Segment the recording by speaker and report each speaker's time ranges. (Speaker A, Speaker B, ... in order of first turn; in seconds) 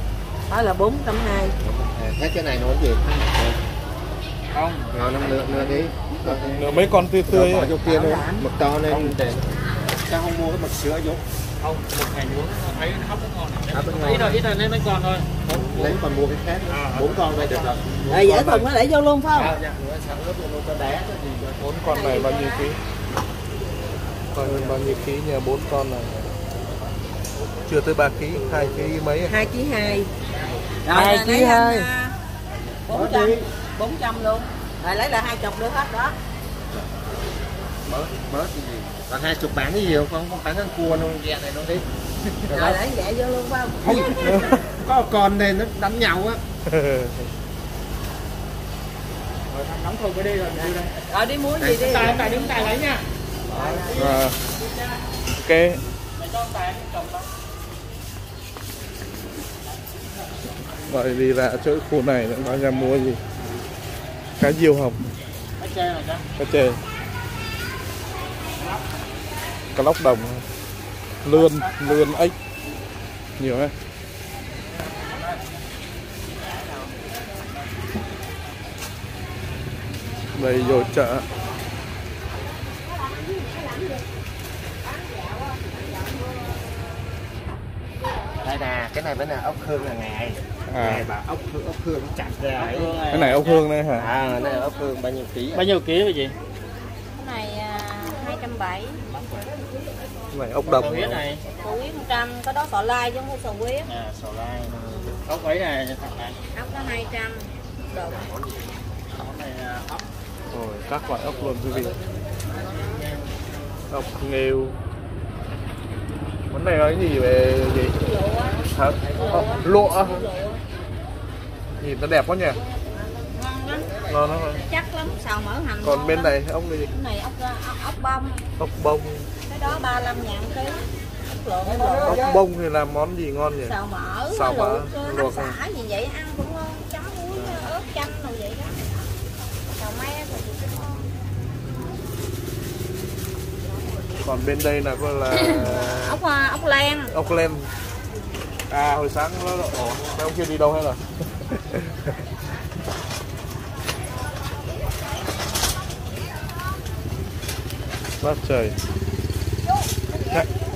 Speaker A: 0.5-1.6, 18.1-19.6, 21.8-22.7, 29.3-30.1, 30.8-32.1, 32.9-36.1, 42.5-44.5, 51.1-52.7, 53.5-53.9, 97.2-99.0, 101.6-103.9, 106.5-108.3, 118.0-118.5, 119.2-120.6, 123.3-126.3, 126.8-128.4, 129.5-132.4, 133.6-138.8, 139.8-140.9, 145.3-147.1
Speaker B: 1.6-3.6, 4.9-11.2, 13.7-14.4, 15.5-18.7, 19.3-21.7, 24.4-24.7, 32.9-33.5, 37.8-41.9, 42.5-42.8, 43.8-46.4, 51.6-52.4, 53.5-53.9, 88.4-93.2, 93.9-95.6, 104.7-105.1, 107.9-108.8, 149.7-150.0
Speaker C: 4.5-5.8, 6.5-6.9, 7.8-9.2, 11.6-16.0, 16.7-17.7, 30.9-31.9, 49.5-51.0, 51.8-53.0, 53.5-55.0, 56.1-57.3, 65.6-66.2, 68.6-68.8, 71.5-71.8, 92.4-93.6, 95.5-96.3, 99.0-99.5, 100.6-101.4, 103.8-104.7, 105.2-106.4, 109.1-110.0, 112.6-113.6
Speaker D: 6.3-7.8, 21.6-22.8, 24.3-26.1, 27.7-29.4, 46.6-47.3, 53.9-54.4, 55.4-55.8, 60.9-63.2, 64.4-65.0, 66.4-66.8, 69.7-70.5, 71.2-72.3, 73.4-73.7, 80.3-81.2, 90.7-91.0, 93.1-94.1, 100.3-101.2, 110.5-112.0, 113.9-114.8, 116.5-118.0, 118.7-120.2, 121.8-122.6, 124.1-124.6, 125.8-126.9, 128.6-129.3, 132.0-133.8, 134.3-135.6, 144.2-146.2, 147.1-147.7, 148.7-151.9, 158.2-158.8